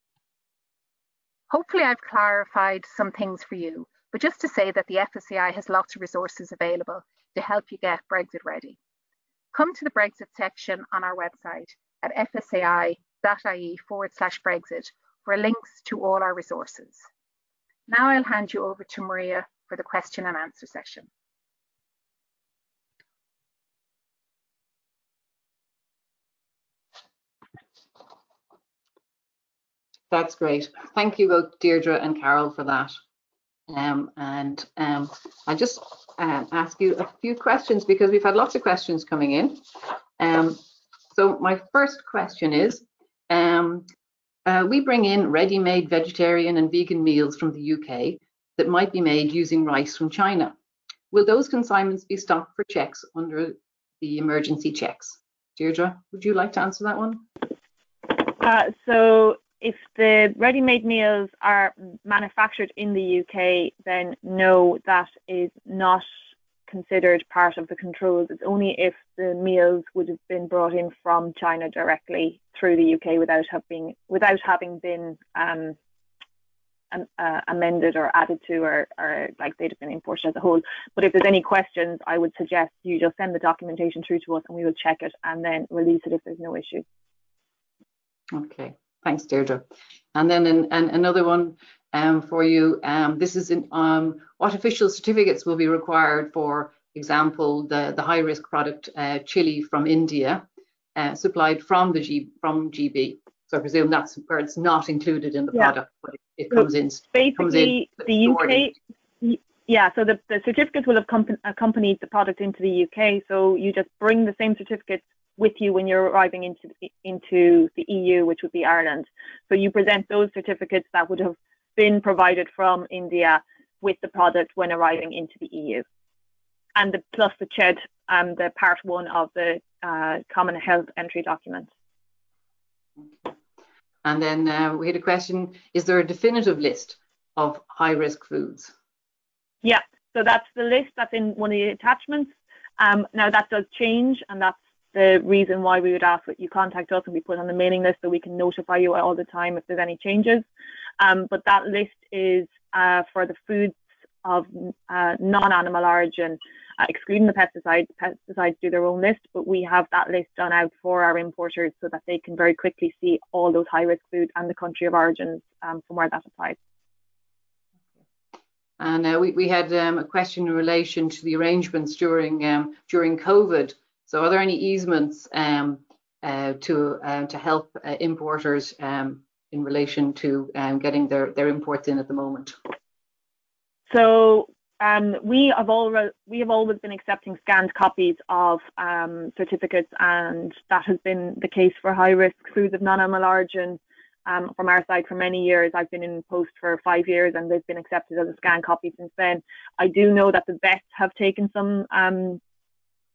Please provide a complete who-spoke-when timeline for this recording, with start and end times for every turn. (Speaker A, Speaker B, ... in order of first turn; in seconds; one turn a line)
Speaker A: 1.5-8.8
Speaker A: 9.5-17.1
Speaker A: 17.9-21.1
Speaker B: 30.1-33.0
Speaker B: 33.7-39.6
Speaker B: 40.2-43.9
Speaker B: 44.5-50.5
Speaker B: 51.1-57.2
Speaker C: 58.1-66.0
Speaker C: 66.7-75.8
Speaker C: 76.9-86.8
Speaker B: 88.3-100.4
Speaker B: 101.0-108.7
Speaker C: 106.5-125.8
Speaker C: 126.8-131.7
Speaker B: 134.0-138.7
Speaker C: 139.6-150.4
Speaker C: 151.0-166.6
Speaker B: 168.8-182.6
Speaker C: 183.9-202.4